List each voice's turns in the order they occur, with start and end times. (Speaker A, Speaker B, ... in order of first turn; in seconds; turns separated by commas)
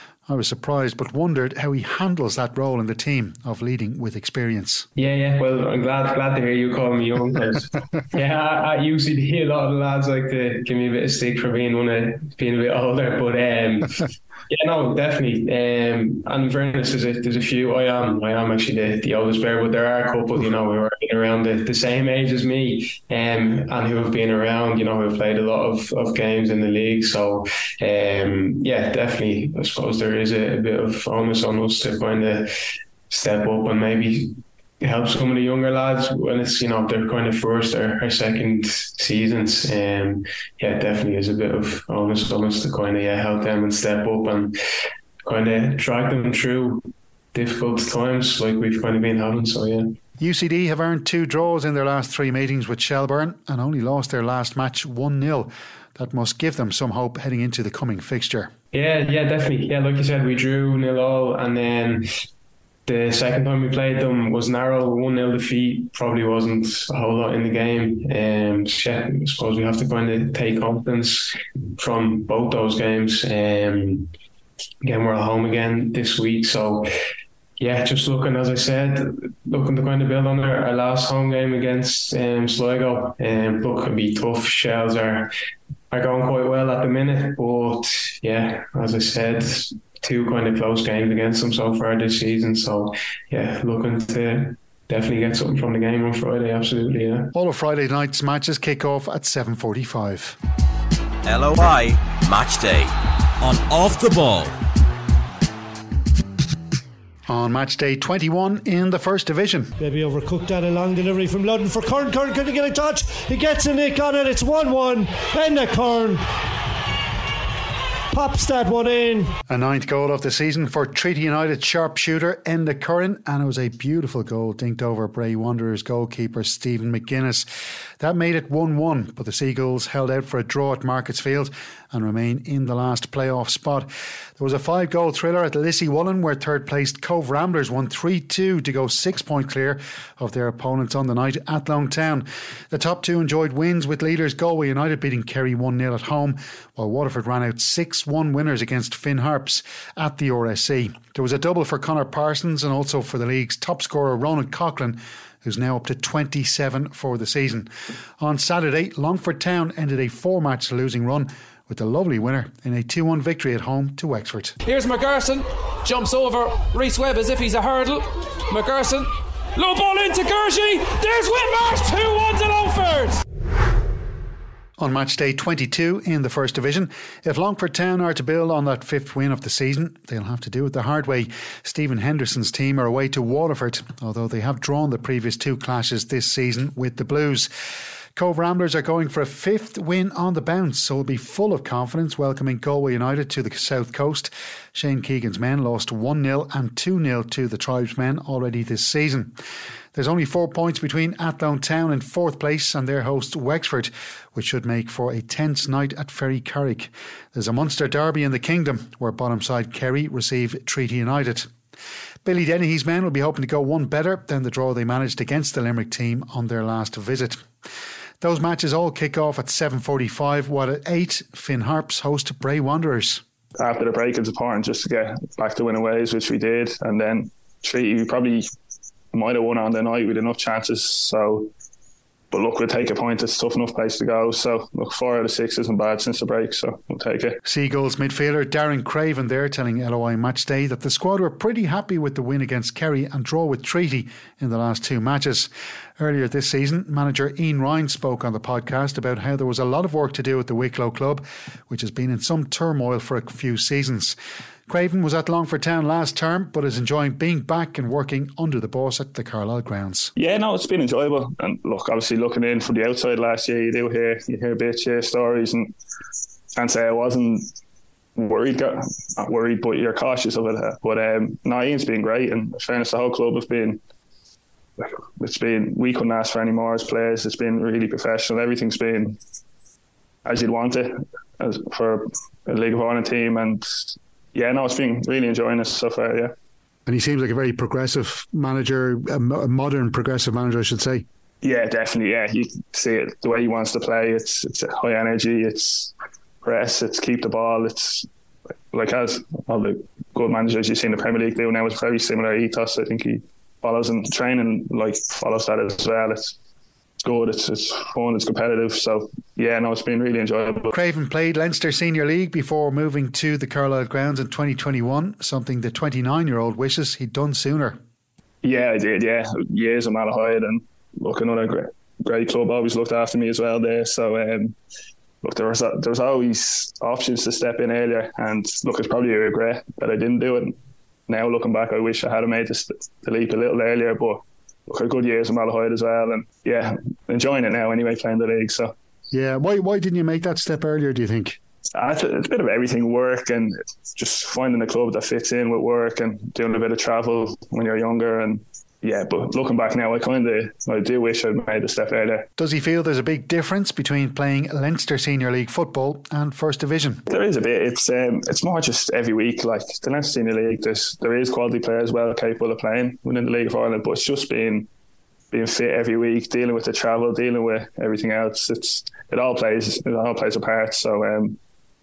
Speaker A: 0.3-4.9, Speaker B: 5.0-32.5, Speaker B: 33.1-44.5, Speaker B: 45.2-49.9, Speaker A: 50.2-58.5, Speaker B: 58.7-62.1, Speaker B: 62.9-74.1, Speaker B: 74.8-76.9, Speaker B: 77.6-85.3, Speaker B: 85.9-97.3, Speaker A: 97.3-100.4, Speaker C: 101.2-104.6, Speaker A: 107.3-109.7, Speaker D: 109.8-116.2, Speaker D: 118.1-119.3, Speaker A: 119.5-127.5, Speaker A: 128.0-133.9, Speaker A: 134.4-164.6, Speaker E: 164.7-173.2, Speaker A: 174.8-187.5, Speaker A: 188.2-199.4, Speaker A: 199.9-211.5, Speaker A: 212.2-217.4, Speaker A: 218.2-223.2, Speaker F: 223.6-228.4, Speaker F: 229.1-231.5, Speaker F: 232.3-237.4, Speaker A: 237.4-254.2, Speaker A: 254.7-260.1, Speaker F: 260.2-265.7, Speaker F: 266.6-267.5, Speaker F: 268.2-273.8, Speaker F: 274.8-279.2, Speaker F: 280.2-286.3, Speaker A: 286.9-291.1, Speaker F: 291.4-298.1, Speaker F: 298.7-306.4, Speaker F: 307.0-310.7, Speaker A: 310.7-317.8, Speaker F: 318.4-324.6, Speaker F: 325.2-330.6, Speaker F: 331.1-338.7, Speaker A: 339.1-341.4, Speaker F: 341.8-352.2, Speaker A: 352.4-357.0, Speaker F: 357.1-364.7, Speaker F: 365.3-371.4